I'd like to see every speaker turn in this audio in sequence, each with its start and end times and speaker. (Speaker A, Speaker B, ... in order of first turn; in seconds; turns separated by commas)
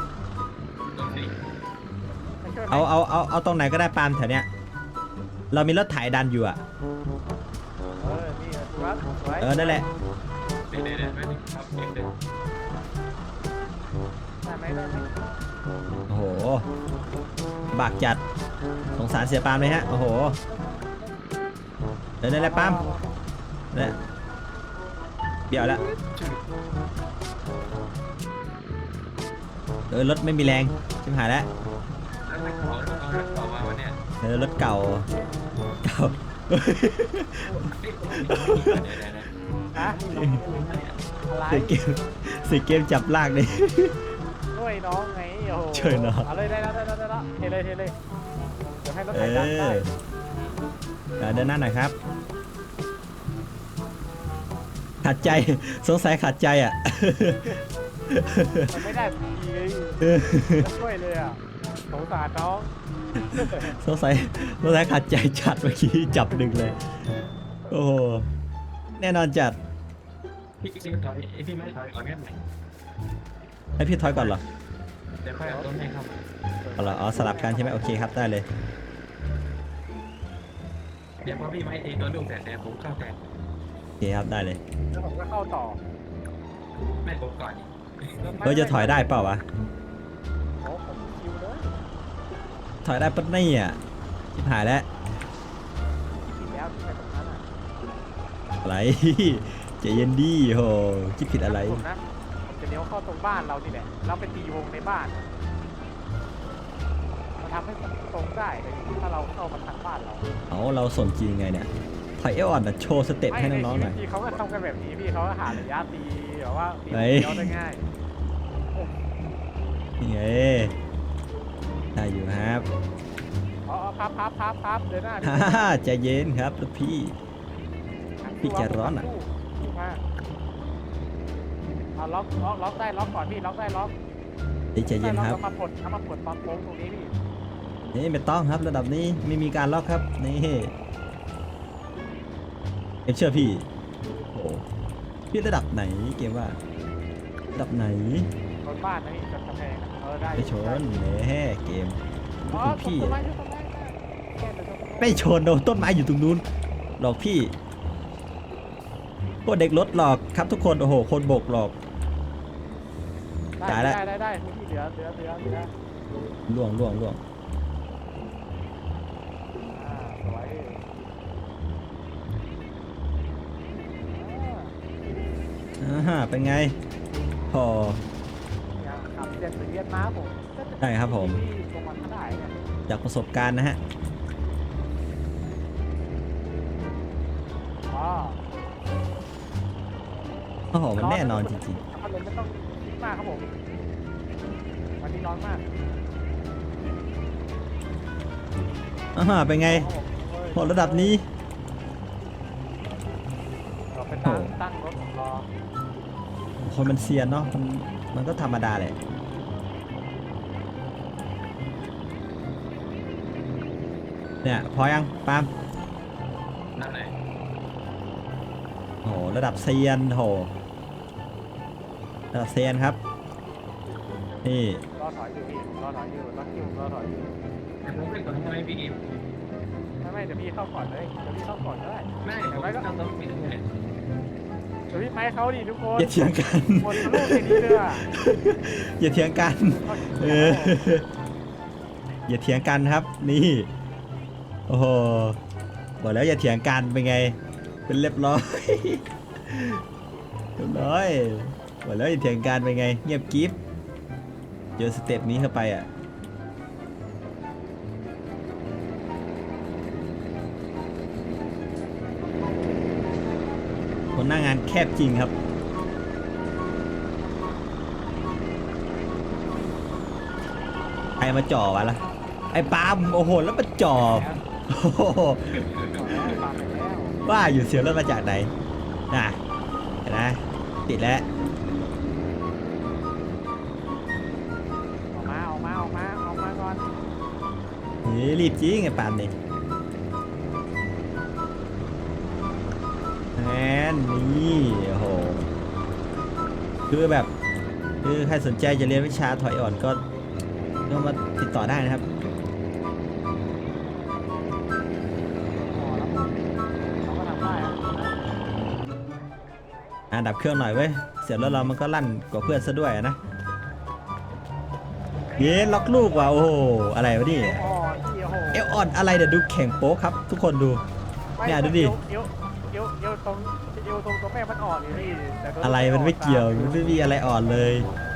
Speaker A: 0.9-1.4, Speaker B: 2.4-2.9, Speaker C: 2.7-4.5, Speaker C: 5.5-6.6, Speaker B: 8.0-9.8, Speaker C: 9.4-9.9, Speaker A: 10.7-12.2, Speaker B: 14.4-15.2, Speaker C: 16.1-16.7, Speaker C: 17.7-18.2, Speaker C: 18.9-20.4, Speaker C: 22.2-22.9, Speaker B: 22.3-23.2, Speaker C: 23.7-24.0, Speaker C: 25.5-25.8, Speaker A: 25.6-26.4, Speaker C: 29.9-31.5, Speaker A: 32.3-34.0, Speaker C: 34.2-35.1, Speaker C: 35.8-38.9, Speaker A: 37.6-41.0, Speaker C: 40.1-40.4, Speaker B: 41.3-41.8, Speaker C: 41.5-44.0, Speaker B: 44.5-48.0, Speaker C: 45.7-46.3, Speaker B: 48.8-49.8, Speaker C: 49.1-49.9, Speaker C: 51.2-52.0, Speaker C: 55.0-58.8, Speaker B: 58.7-62.7, Speaker C: 60.0-60.7, Speaker C: 63.3-66.8, Speaker B: 63.3-63.7, Speaker C: 67.7-68.3, Speaker C: 69.0-69.6, Speaker A: 70.6-72.4, Speaker C: 73.8-74.4, Speaker A: 74.0-74.3, Speaker A: 75.2-76.2, Speaker B: 75.4-75.7, Speaker B: 76.6-78.1, Speaker C: 76.8-78.5, Speaker A: 81.2-83.2, Speaker C: 84.0-84.6, Speaker B: 84.9-85.8, Speaker A: 87.0-87.7, Speaker B: 88.2-89.3, Speaker C: 88.4-89.4, Speaker B: 90.6-91.8, Speaker C: 92.8-93.8, Speaker C: 94.3-94.9, Speaker B: 96.2-97.4, Speaker C: 98.6-101.8, Speaker B: 101.4-105.3, Speaker B: 107.4-110.3, Speaker C: 110.5-111.7, Speaker C: 112.2-114.0, Speaker B: 113.3-117.9, Speaker C: 116.9-117.5, Speaker C: 120.0-120.7, Speaker C: 122.0-122.7, Speaker B: 123.7-125.7, Speaker C: 125.2-127.2, Speaker B: 128.2-130.0, Speaker C: 128.4-129.1, Speaker B: 132.0-133.9, Speaker C: 134.8-135.4, Speaker B: 134.9-137.1, Speaker C: 137.9-140.7, Speaker C: 143.1-143.7, Speaker C: 144.3-144.7, Speaker C: 145.3-146.6, Speaker C: 147.5-148.3, Speaker B: 148.6-151.0, Speaker C: 150.3-153.2, Speaker B: 152.5-155.2, Speaker C: 155.0-156.4, Speaker C: 157.0-157.5, Speaker C: 159.4-161.8, Speaker B: 163.6-165.7, Speaker C: 163.7-164.0, Speaker C: 166.5-167.2, Speaker B: 169.7-170.8, Speaker B: 174.1-174.8, Speaker C: 175.8-176.8, Speaker C: 177.5-178.0, Speaker B: 178.8-182.5, Speaker C: 180.8-181.4, Speaker C: 182.9-183.8, Speaker B: 187.9-188.4, Speaker C: 190.7-191.8, Speaker B: 191.0-193.5, Speaker B: 195.0-195.6, Speaker C: 199.2-199.9, Speaker B: 199.7-201.2, Speaker C: 200.6-201.3, Speaker B: 203.9-205.5, Speaker C: 204.2-204.5, Speaker C: 206.6-209.0, Speaker C: 214.4-215.5, Speaker A: 216.8-217.2, Speaker C: 219.0-220.5, Speaker C: 222.3-223.0, Speaker C: 224.4-224.8, Speaker B: 225.0-227.4, Speaker A: 227.8-229.1, Speaker B: 230.0-232.9, Speaker A: 232.2-233.7, Speaker B: 234.9-236.2, Speaker C: 236.0-241.1, Speaker B: 236.8-238.1, Speaker B: 239.6-240.8, Speaker C: 242.3-243.7, Speaker C: 244.7-245.4, Speaker C: 246.0-249.8, Speaker C: 250.6-253.6, Speaker C: 254.8-255.9, Speaker C: 264.1-265.3, Speaker C: 271.2-275.6, Speaker B: 274.0-274.5, Speaker A: 275.5-276.1, Speaker B: 275.8-277.2, Speaker C: 277.2-278.5, Speaker C: 279.1-279.4, Speaker C: 280.1-281.3, Speaker B: 285.1-286.9, Speaker C: 288.0-289.3, Speaker C: 293.4-295.5, Speaker C: 296.9-297.3, Speaker C: 298.0-300.0, Speaker C: 300.9-302.1, Speaker B: 305.5-306.4, Speaker B: 307.0-308.1, Speaker C: 310.1-313.2, Speaker C: 315.4-317.6, Speaker B: 317.3-318.8, Speaker C: 318.5-320.8, Speaker B: 321.4-326.8, Speaker C: 321.4-322.0, Speaker C: 325.6-327.9